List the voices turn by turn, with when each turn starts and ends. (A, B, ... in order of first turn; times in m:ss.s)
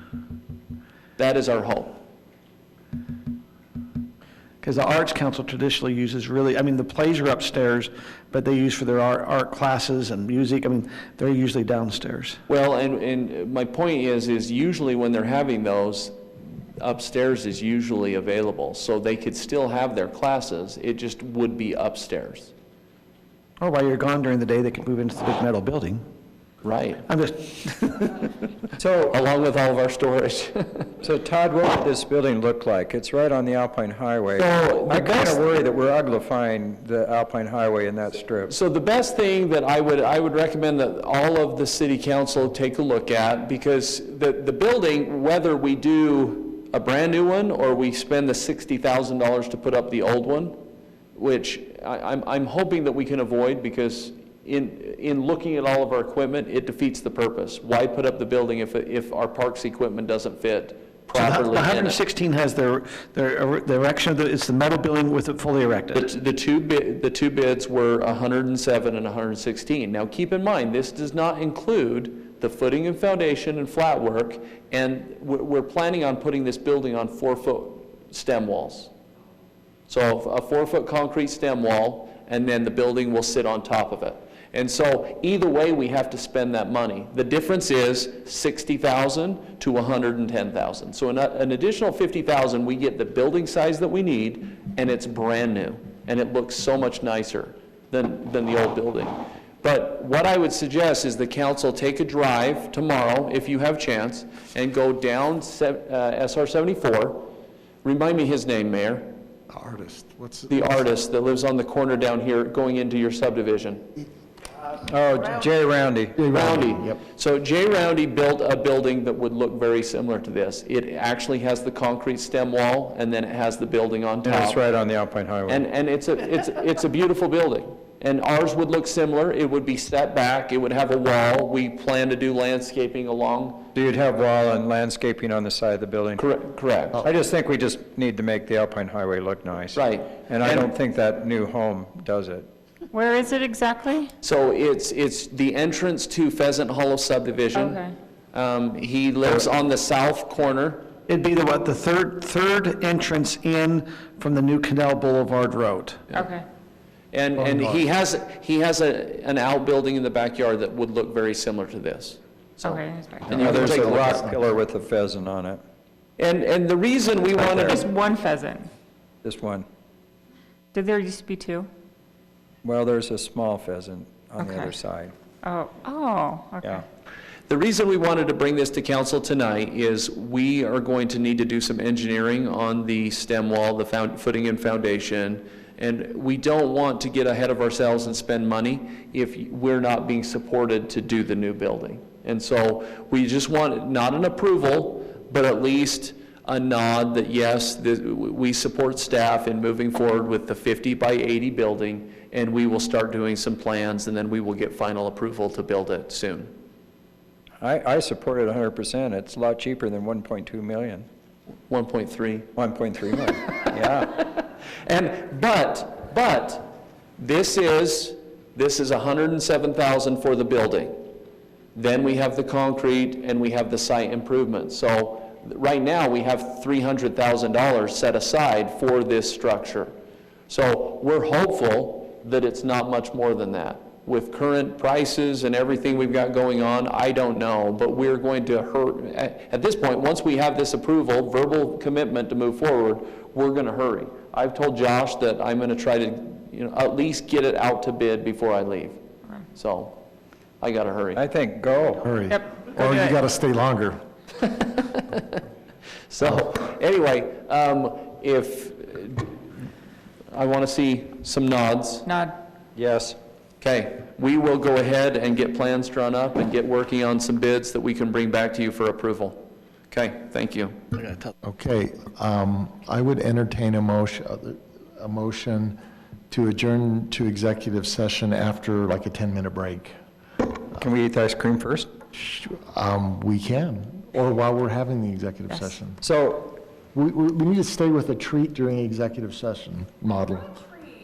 0:01.2-0:02.0 A
0:04.6-0:12.4 B
0:12.5-0:16.2 A
0:16.8-0:22.5 A
0:23.6-0:26.0 B
0:26.6-0:27.0 A
0:27.1-0:28.1 B
0:28.8-0:29.2 C
0:29.1-0:30.9 A
0:31.0-0:38.5 C
0:34.4-0:35.4 A
0:38.5-0:50.6 A
0:51.1-1:02.0 A
1:01.1-1:06.0 B
1:05.9-1:18.9 A
1:19.9-1:47.3 A
1:47.8-1:49.1 A
1:49.5-1:50.7 D
1:50.5-1:53.8 A
1:54.8-1:56.2 C
1:56.2-1:57.0 D
1:56.3-2:04.6 A
2:04.2-2:05.6 C
2:05.5-2:13.7 A
2:13.7-2:16.2 C
2:16.2-2:17.1 A
2:17.0-2:22.5 C
2:19.7-2:20.7 A
2:22.9-2:24.1 E
2:24.2-2:30.9 A
2:27.5-2:27.9 E
2:31.1-2:36.0 B
2:36.1-2:36.4 E
2:37.1-2:44.2 A
2:37.4-2:37.8 D
2:42.6-2:43.4 E
2:43.3-2:44.5 D
2:43.3-2:45.6 C
2:46.2-2:47.9 A
2:47.4-2:47.8 C
2:47.6-2:48.7 E
2:49.2-2:49.6 C
2:50.7-2:51.7 E
2:52.6-2:55.1 C
2:54.4-2:54.7 E
2:55.4-2:56.8 E
2:57.5-3:26.5 A
3:27.6-3:31.0 C
3:31.7-3:32.5 A
3:32.6-3:34.2 C
3:33.8-3:41.0 A
3:41.7-3:49.9 A
3:50.5-4:09.0 A
4:09.5-4:10.0 A
4:10.6-4:11.2 A
4:11.1-4:12.1 C
4:12.0-4:14.0 D
4:12.3-4:13.2 E
4:14.4-4:15.4 A
4:16.1-4:19.4 A
4:20.3-4:22.1 A
4:22.0-4:22.3 E
4:22.8-4:23.2 C
4:23.6-4:29.4 A
4:29.9-4:30.8 A
4:31.4-4:35.8 D
4:36.3-4:39.9 D
4:40.8-4:41.9 C
4:42.1-4:46.0 D
4:45.5-4:45.7 E
4:46.0-4:46.6 C
4:46.9-4:50.6 D